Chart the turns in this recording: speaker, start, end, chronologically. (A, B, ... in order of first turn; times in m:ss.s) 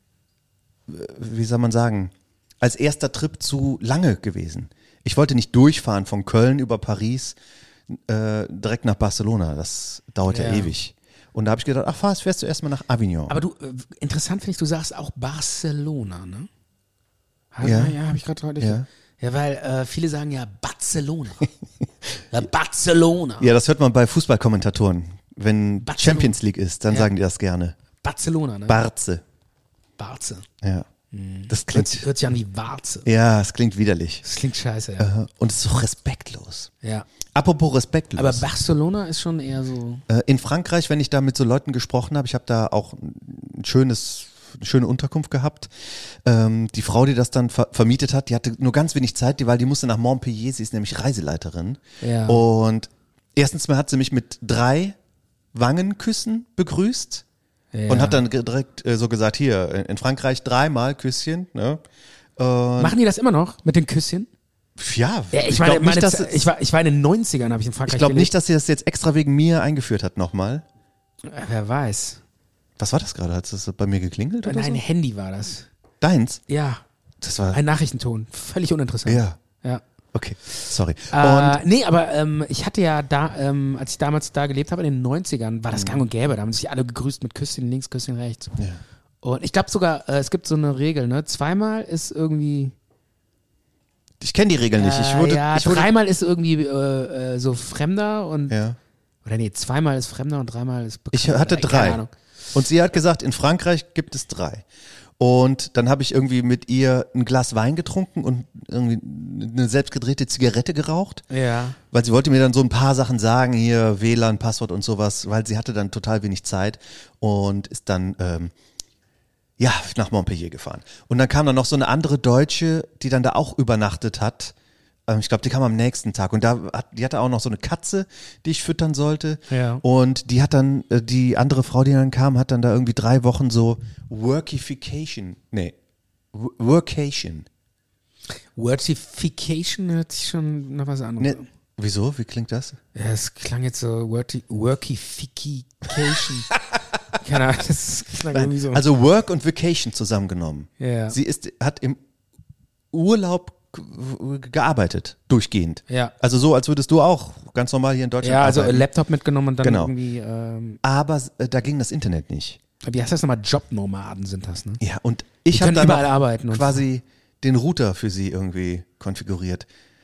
0:00.9-0:07.4 A
0:07.9-0:13.3 A
0:10.3-0:10.7 B
0:13.3-0:16.5 B
0:17.5-0:21.5 B
0:17.6-0:18.0 A
0:18.6-0:18.9 A
0:22.3-0:23.5 B
0:23.4-0:27.8 A
0:25.8-0:26.4 B
0:28.0-0:28.8 B
0:28.7-0:29.2 A
0:30.0-0:30.4 B
0:30.6-0:30.9 A
0:31.1-0:33.1 B
0:31.5-0:32.0 A
0:33.0-0:34.2 A
0:34.2-0:35.1 B
0:35.0-0:36.7 A
0:36.8-0:37.1 B
0:37.3-0:38.4 A
0:38.2-0:40.0 B
0:40.1-0:45.7 A
0:46.2-0:55.0 A
0:52.0-0:52.4 B
0:55.5-0:57.2 A
0:57.7-0:58.2 B
0:57.9-1:01.8 A
1:02.4-1:03.0 A
1:02.8-1:04.3 B
1:04.8-1:06.5 A
1:05.3-1:08.3 B
1:07.9-1:10.6 A
1:11.2-1:12.2 B
1:12.8-1:14.8 A
1:14.4-1:15.6 B
1:16.0-1:16.4 A
1:16.5-1:16.8 B
1:17.2-1:17.6 A
1:17.5-1:19.8 B
1:19.0-1:19.4 A
1:20.1-1:21.6 A
1:21.1-1:28.5 B
1:25.7-1:26.0 A
1:29.2-1:32.7 B
1:34.2-1:35.9 A
1:34.8-1:38.6 B
1:38.5-1:38.8 A
1:39.2-1:42.1 B
1:41.1-1:42.0 A
1:42.5-1:44.6 A
1:45.2-1:51.2 A
1:51.3-1:51.8 B
1:51.9-1:58.5 A
1:59.6-2:04.5 A
2:05.1-2:15.7 A
2:09.5-2:09.8 B
2:16.3-2:17.5 A
2:18.6-2:21.4 B
2:21.2-2:22.8 A
2:22.9-2:26.5 B
2:27.2-2:28.8 B
2:28.3-2:32.0 A
2:30.8-2:31.2 B
2:32.9-2:38.8 A
2:38.2-2:40.8 B
2:39.6-2:39.9 A
2:40.8-2:42.6 A
2:42.8-2:44.8 B
2:44.8-2:49.6 A
2:45.5-2:46.8 B